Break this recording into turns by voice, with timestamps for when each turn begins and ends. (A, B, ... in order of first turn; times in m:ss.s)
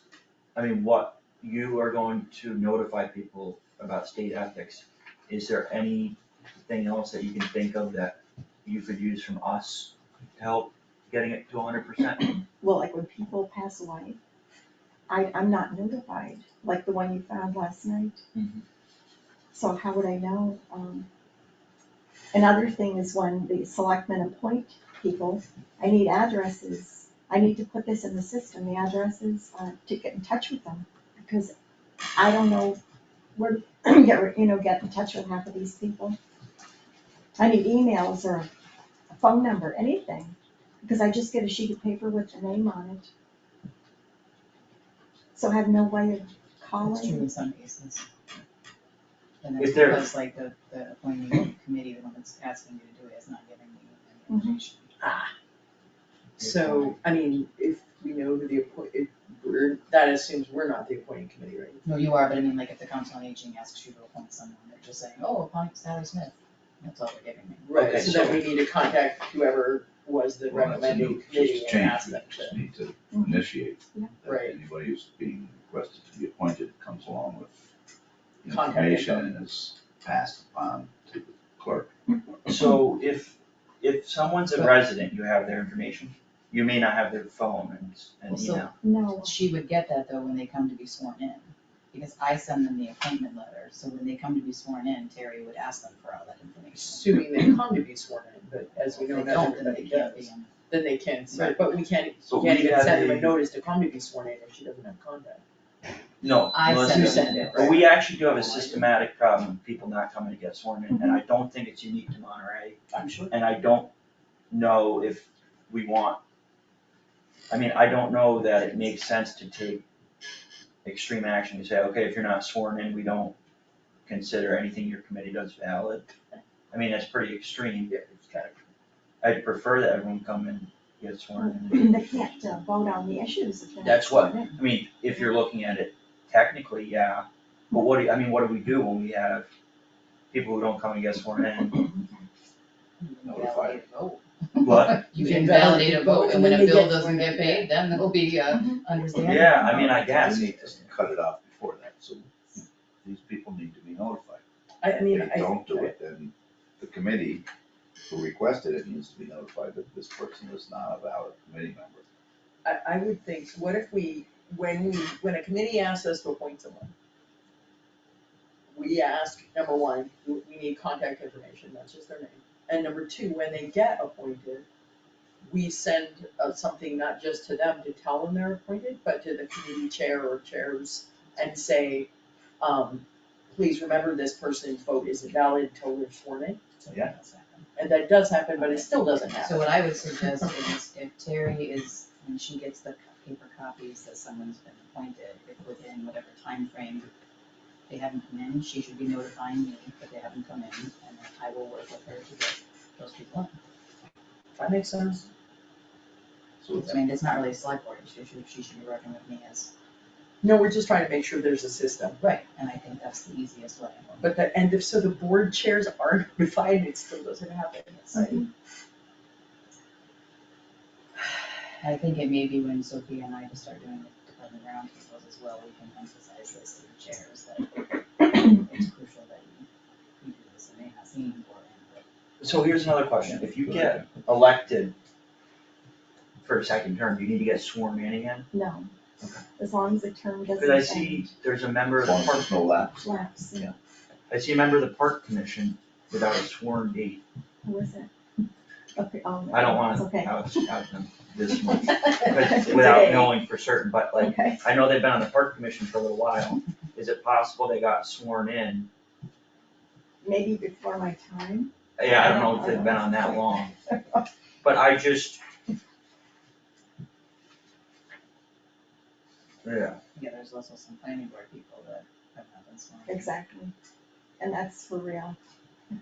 0:00.6-0:12.4 A
0:12.6-0:14.2 B
0:15.1-0:18.2 B
0:18.3-0:18.6 A
0:19.5-0:21.1 B
0:22.3-0:31.5 B
0:32.1-0:32.8 B
0:33.4-0:36.2 B
0:37.4-0:38.5 B
0:39.1-0:43.1 B
0:45.4-0:47.3 B
0:46.8-0:48.1 C
0:49.4-0:55.0 C
0:49.6-0:50.1 A
0:54.3-0:54.6 B
0:55.0-0:55.3 D
0:56.4-0:57.0 A
0:56.4-1:01.8 D
1:01.8-1:07.7 C
1:07.7-1:12.5 D
1:07.7-1:08.4 A
1:10.5-1:17.5 E
1:13.1-1:13.4 B
1:18.4-1:21.9 E
1:18.5-1:19.2 D
1:22.5-1:28.8 A
1:28.3-1:28.7 C
1:28.8-1:29.3 B
1:29.2-1:37.3 C
1:36.8-1:40.3 D
1:38.9-1:40.6 C
1:40.8-1:45.4 D
1:41.3-1:41.6 C
1:42.3-1:43.4 A
1:46.2-1:53.9 A
1:46.5-1:48.9 C
1:46.9-1:47.6 D
1:54.5-1:56.2 A
1:57.5-1:59.8 A
2:00.8-2:03.4 A
2:04.1-2:06.1 A
2:06.7-2:07.9 A
2:07.9-2:08.6 D
2:09.2-2:12.3 A
2:11.4-2:14.6 B
2:13.8-2:19.5 A
2:20.3-2:21.9 A
2:23.0-2:30.0 C
2:23.2-2:23.9 E
2:24.6-2:25.1 A
2:25.2-2:27.6 D
2:29.2-2:30.9 A
2:29.2-2:37.5 E
2:34.8-2:35.9 D
2:38.1-2:42.0 E
2:42.6-2:46.9 D
2:48.7-2:54.6 D
2:55.4-3:02.1 D
3:02.6-3:06.6 D
3:06.8-3:07.7 C
3:07.8-3:09.6 D
3:08.6-3:17.1 C
3:17.9-3:23.5 C
3:24.6-3:25.3 D
3:26.6-3:27.0 E
3:26.7-3:29.7 C
3:30.4-3:32.2 D
3:32.2-3:34.3 C
3:34.2-3:38.3 D
3:38.1-3:38.4 C
3:41.8-3:49.7 C
3:50.2-3:52.0 C
3:52.4-3:55.0 A
3:53.2-3:54.0 E
3:56.4-3:58.5 A
3:58.5-3:58.9 B
3:59.6-4:01.3 B
4:00.6-4:02.5 A
4:02.0-4:03.1 E
4:03.0-4:03.7 B
4:04.3-4:07.2 A
4:07.6-4:08.4 B
4:09.0-4:10.7 B
4:09.5-4:18.9 A
4:11.7-4:13.4 B
4:14.2-4:14.6 B
4:20.2-4:24.2 B
4:22.0-4:23.7 A
4:24.6-4:25.4 A
4:29.6-4:30.0 A
4:30.2-4:33.3 C
4:33.1-4:33.7 B
4:34.4-4:35.4 B